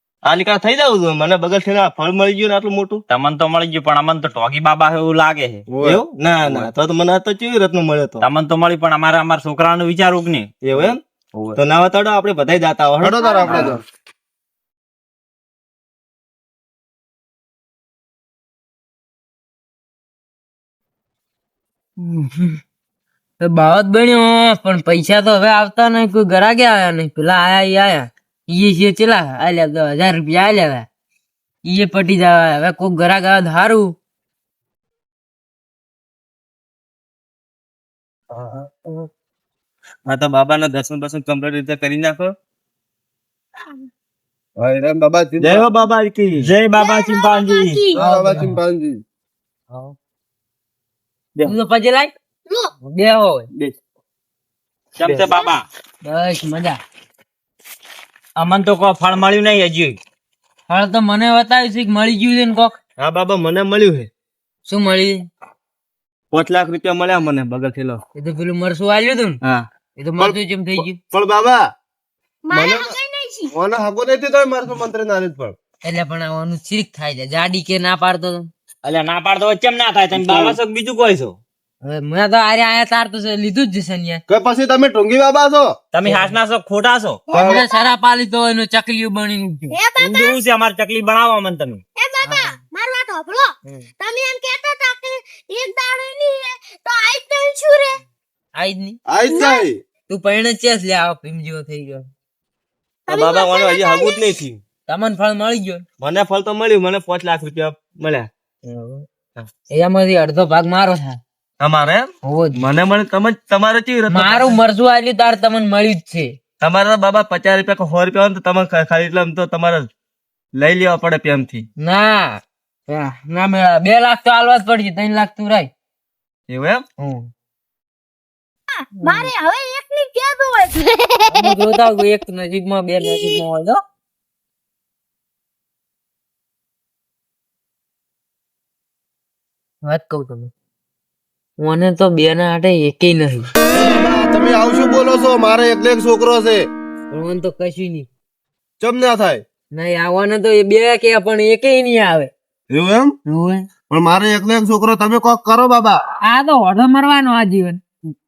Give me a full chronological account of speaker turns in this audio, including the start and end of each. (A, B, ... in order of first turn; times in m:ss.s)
0:00.2-0:03.0 A
0:03.1-0:05.6 B
0:05.7-0:06.0 C
0:05.8-0:08.2 A
0:06.4-0:06.7 B
0:08.2-0:11.6 B
0:10.6-0:11.0 A
0:11.5-0:13.7 A
0:13.0-0:13.8 C
0:13.2-0:13.6 D
0:22.0-0:22.6 E
0:23.4-0:30.9 E
0:31.6-0:33.9 E
0:40.0-0:42.3 A
0:44.6-0:45.6 C
0:45.4-0:46.5 A
0:46.4-0:47.9 B
0:46.7-0:48.0 D
0:47.9-0:49.0 C
0:48.0-0:48.5 E
0:51.4-0:52.1 E
0:52.8-0:53.5 E
0:55.0-0:55.6 B
0:55.0-0:55.3 A
0:56.0-0:56.8 E
0:58.4-1:00.0 B
1:00.7-1:02.8 E
1:03.0-1:04.1 A
1:04.6-1:05.3 E
1:06.3-1:08.0 A
1:08.1-1:09.4 E
1:10.0-1:11.0 E
1:10.2-1:11.6 C
1:12.4-1:13.5 D
1:12.5-1:13.0 C
1:13.5-1:15.6 C
1:15.8-1:18.5 E
1:18.8-1:21.4 B
1:20.1-1:20.6 C
1:21.8-1:24.2 E
1:24.3-1:25.7 C
1:25.9-1:27.2 B
1:26.0-1:26.3 E
1:27.3-1:27.9 D
1:27.3-1:27.6 C
1:27.3-1:29.8 E
1:29.7-1:30.4 D
1:30.0-1:31.8 B
1:32.0-1:38.0 D
1:32.2-1:32.5 E
1:38.5-1:39.0 E
1:39.1-1:39.8 C
1:39.2-1:39.7 D
1:40.1-1:42.0 E
1:43.1-1:44.3 D
1:43.1-1:44.6 A
1:44.8-1:45.8 E
1:46.0-1:49.5 A
1:49.7-1:51.2 E
1:51.6-1:54.6 A
1:52.2-1:52.6 E
1:54.1-1:56.3 E
1:56.6-1:59.9 A
2:00.5-2:01.6 A
2:01.8-2:05.7 E
2:06.5-2:06.8 A
2:07.0-2:07.3 E
2:08.7-2:11.7 D
2:09.0-2:09.3 E
2:11.3-2:13.8 E
2:13.0-2:13.4 D
2:19.8-2:20.5 E
2:21.6-2:23.5 E
2:23.7-2:26.7 C
2:27.1-2:28.1 E
2:28.8-2:29.4 C
2:29.7-2:32.3 E
2:32.7-2:33.1 C
2:33.3-2:33.6 E
2:33.9-2:36.0 C
2:36.2-2:37.8 E